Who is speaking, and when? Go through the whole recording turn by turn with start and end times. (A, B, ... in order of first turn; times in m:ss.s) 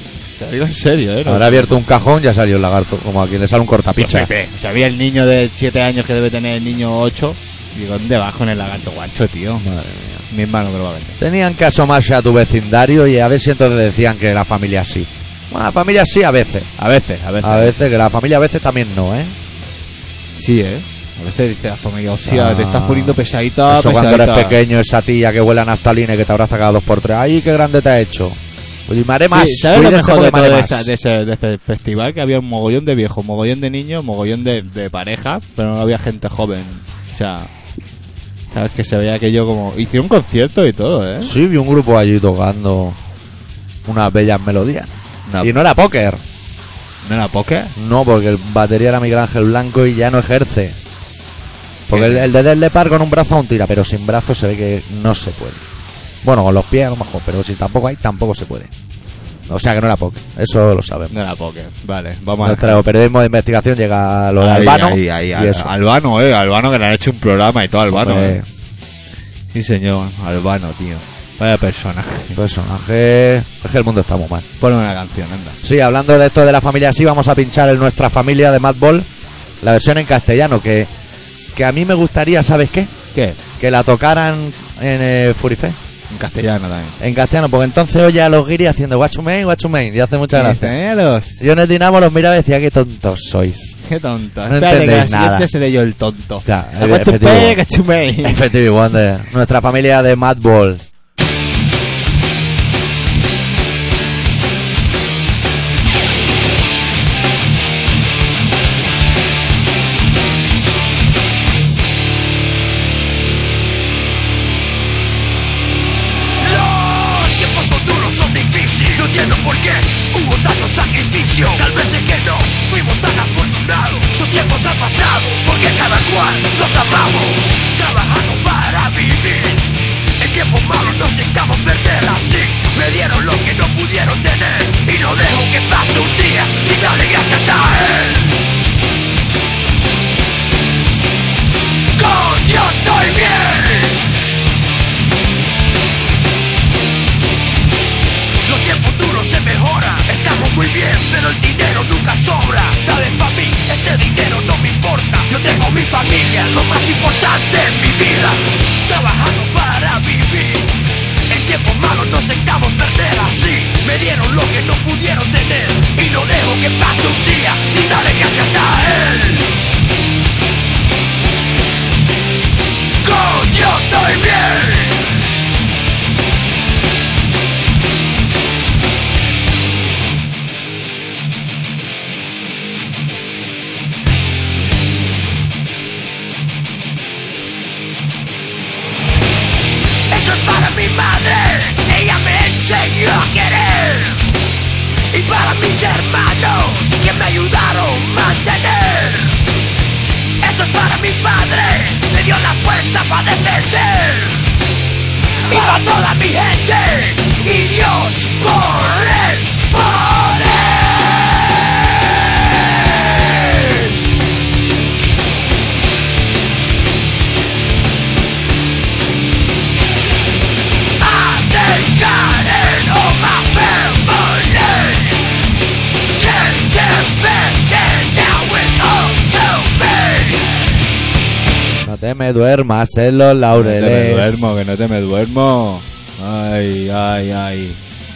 0:00.4-0:01.8 A
0:01.2-0:04.3 B
0:04.0-0:09.6 A
0:09.6-0:10.2 B
0:10.3-0:11.2 A
0:11.2-0:16.7 B
0:16.8-0:17.7 A
0:17.4-0:19.3 B
0:20.3-0:24.6 A
0:22.2-0:30.9 B
0:29.3-0:37.5 A
0:38.5-0:41.3 A
0:41.2-0:43.0 B
0:43.8-0:46.2 B
0:45.3-0:45.6 A
0:47.0-0:47.7 A
0:47.8-0:50.8 B
0:51.9-0:55.6 B
0:51.9-0:52.3 A
0:56.2-0:58.7 B
0:59.5-1:01.1 B
1:01.1-1:02.8 A
1:02.4-1:05.7 B
1:04.4-1:08.4 A
1:07.9-1:08.4 B
1:09.5-1:12.4 A
1:12.3-1:14.4 B
1:14.6-1:15.6 A
1:15.6-1:19.1 B
1:19.6-1:20.9 B
1:21.5-1:22.9 B
1:23.6-1:25.8 B
1:26.1-1:27.0 A
1:27.0-1:30.8 B
1:30.3-1:31.4 A
1:31.4-1:33.8 B
1:33.8-1:38.4 A
1:34.5-1:35.5 B
1:36.4-1:37.6 B
1:38.2-1:40.8 B
1:56.4-2:09.7 C
2:10.2-2:18.4 C
2:22.0-2:24.0 C
2:28.4-2:40.7 C
2:41.3-2:49.5 C
2:53.0-2:55.0 C
3:10.1-3:14.2 C
3:15.1-3:19.4 C
3:20.4-3:24.5 C
3:25.5-3:31.4 C
3:33.0-3:34.0 C
3:41.0-3:45.2 C
3:46.2-3:50.5 C
3:51.8-3:54.4 B
3:53.5-3:57.8 A